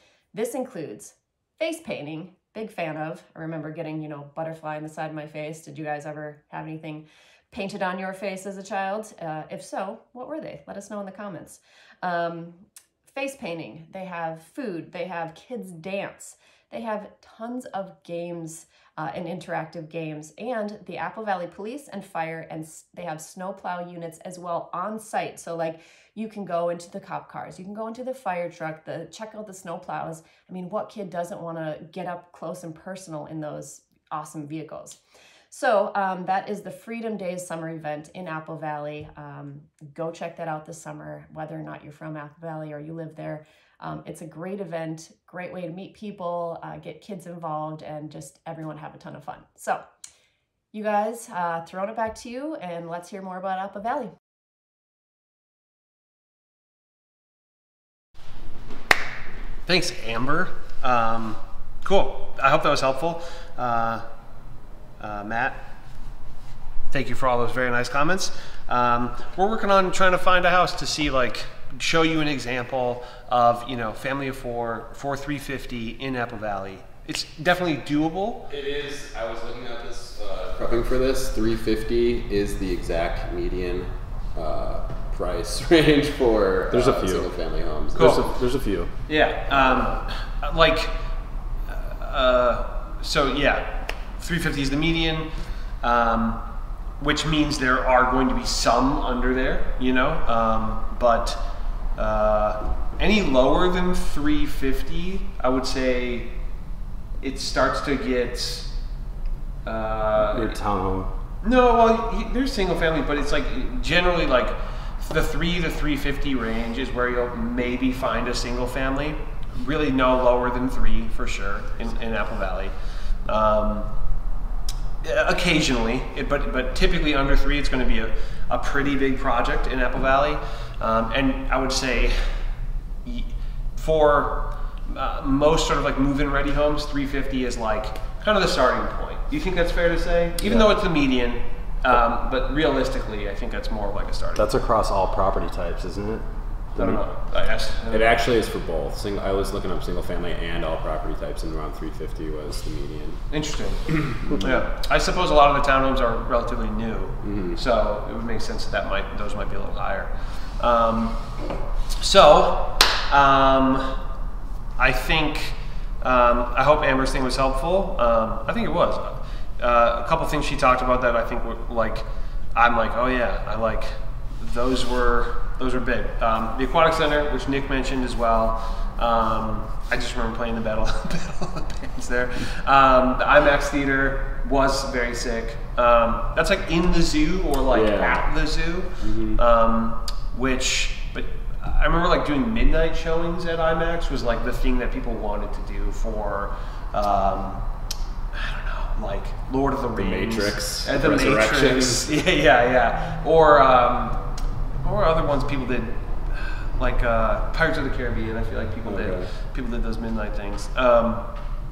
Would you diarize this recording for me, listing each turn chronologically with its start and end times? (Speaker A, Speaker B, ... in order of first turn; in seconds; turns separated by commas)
Speaker A: 0.3-35.0, Speaker A: 35.5-49.8, Speaker A: 50.7-54.2, Speaker B: 59.7-64.0, Speaker B: 65.0-65.6, Speaker B: 66.9-78.5, Speaker C: 78.5-88.2, Speaker D: 86.7-87.3, Speaker D: 88.0-88.9, Speaker B: 88.0-88.2, Speaker B: 89.1-90.9, Speaker B: 91.7-95.3, Speaker B: 95.8-96.4, Speaker B: 97.0-101.4, Speaker B: 102.0-106.3, Speaker B: 107.2-108.7, Speaker B: 109.7-110.6, Speaker D: 110.3-111.1, Speaker B: 111.4-122.7, Speaker B: 123.3-123.9, Speaker B: 125.0-132.4, Speaker B: 133.0-144.5, Speaker D: 144.4-146.2, Speaker B: 146.8-148.2, Speaker C: 147.9-153.2, Speaker B: 153.3-161.2, Speaker C: 153.9-154.5, Speaker C: 157.2-157.6, Speaker B: 162.0-164.0, Speaker B: 164.8-197.7, Speaker C: 187.7-188.2, Speaker C: 189.0-189.4, Speaker B: 198.3-204.2, Speaker C: 200.0-202.1, Speaker B: 204.8-211.3, Speaker C: 208.8-209.3